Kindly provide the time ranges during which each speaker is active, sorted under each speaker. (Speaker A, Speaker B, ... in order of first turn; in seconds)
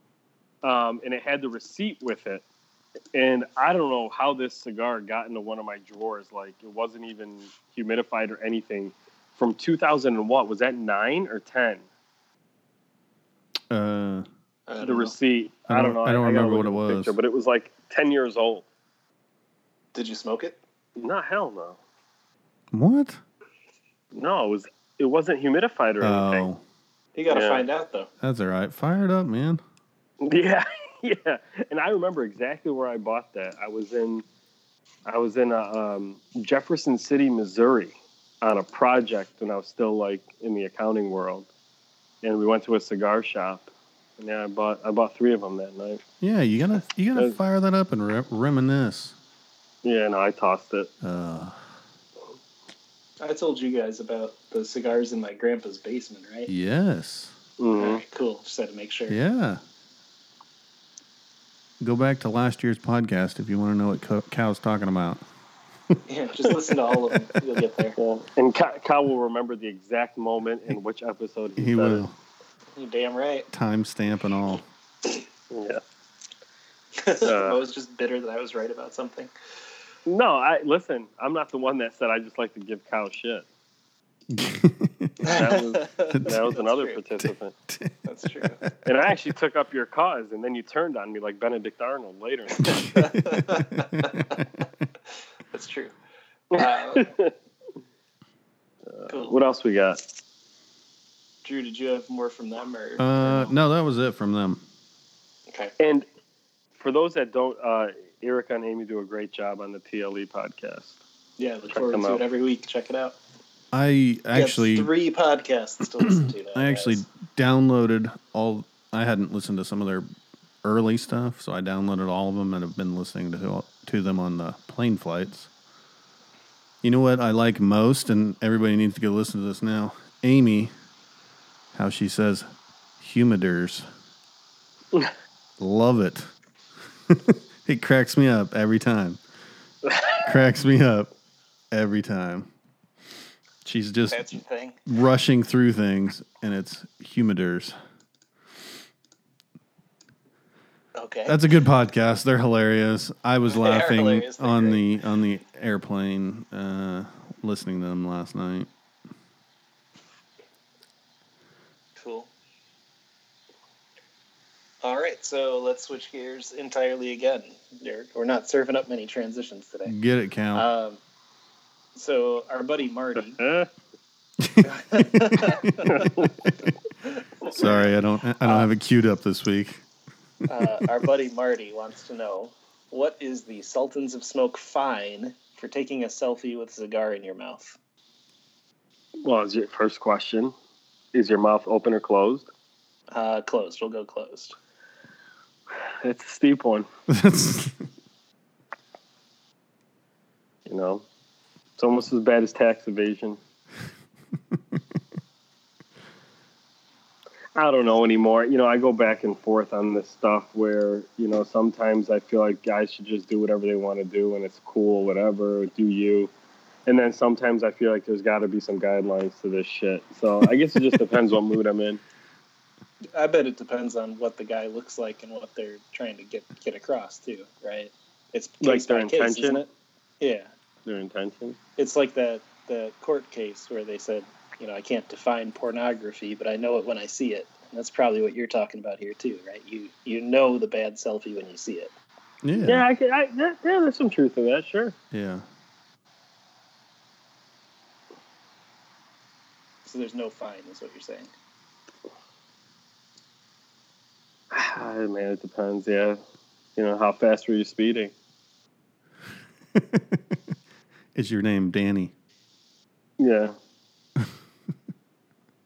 Speaker A: 0.6-2.4, 3.1-11.8, 14.8-18.6, 21.0-21.8, 24.1-26.5, 27.3-27.6, 30.2-34.2, 35.0-41.5, 42.2-46.0, 49.8-50.9, 57.6-58.0, 68.0-72.0, 75.5-75.8, 77.2-77.6, 80.0-83.5, 85.2-87.5, 88.8-93.0, 96.5-97.3, 98.9-100.0, 105.8-106.0, 106.8-111.0, 111.7-112.2, 139.8-140.2, 173.3-173.7, 175.8-176.3, 189.2-190.5, 191.1-192.5, 196.0-196.9, 200.7-201.1, 201.8-203.4, 207.5-216.3, 216.8-222.0, 228.6-229.6, 230.8-231.6, 242.6-244.9, 254.5-256.2, 256.8-258.1, 263.2-263.6
Speaker B: 13.7-14.2, 15.7-17.1, 22.7-23.2, 26.0-26.6, 28.2-29.6, 46.2-49.1, 51.0-51.6, 56.5-57.3, 59.1-59.6, 61.8-65.2, 71.6-72.1, 73.5-74.6, 84.3-85.3, 86.1-86.4, 87.2-88.7, 93.0-94.2, 103.0-104.6, 113.7-114.9, 116.1-120.0, 120.6-125.5, 126.8-130.7, 131.7-132.5, 133.0-133.8, 135.6-136.3, 137.1-139.2, 140.2-141.1, 141.7-142.5, 143.6-144.2, 144.9-147.7, 151.2-158.7, 169.8-170.6, 174.4-176.1, 177.5-179.8, 197.1-197.8, 242.4-242.8, 245.1-245.4, 259.7-260.4, 261.1-262.1
Speaker C: 14.7-15.1, 19.9-20.6, 27.1-28.1, 53.2-56.5, 57.7-59.2, 66.1-68.0, 72.8-73.5, 77.0-79.3, 85.2-87.0, 88.0-88.6, 92.8-94.4, 95.5-95.9, 96.5-97.1, 99.1-99.3, 101.4-103.5, 111.4-113.2, 114.3-117.0, 144.1-144.8, 150.9-151.4, 153.5-154.8, 161.9-162.3, 164.8-169.9, 170.5-171.0, 171.9-173.4, 174.6-176.1, 177.2-177.8, 178.4-178.7, 180.4-187.8, 193.1-194.5, 223.1-229.7, 230.2-230.5, 231.8-241.9, 249.8-251.3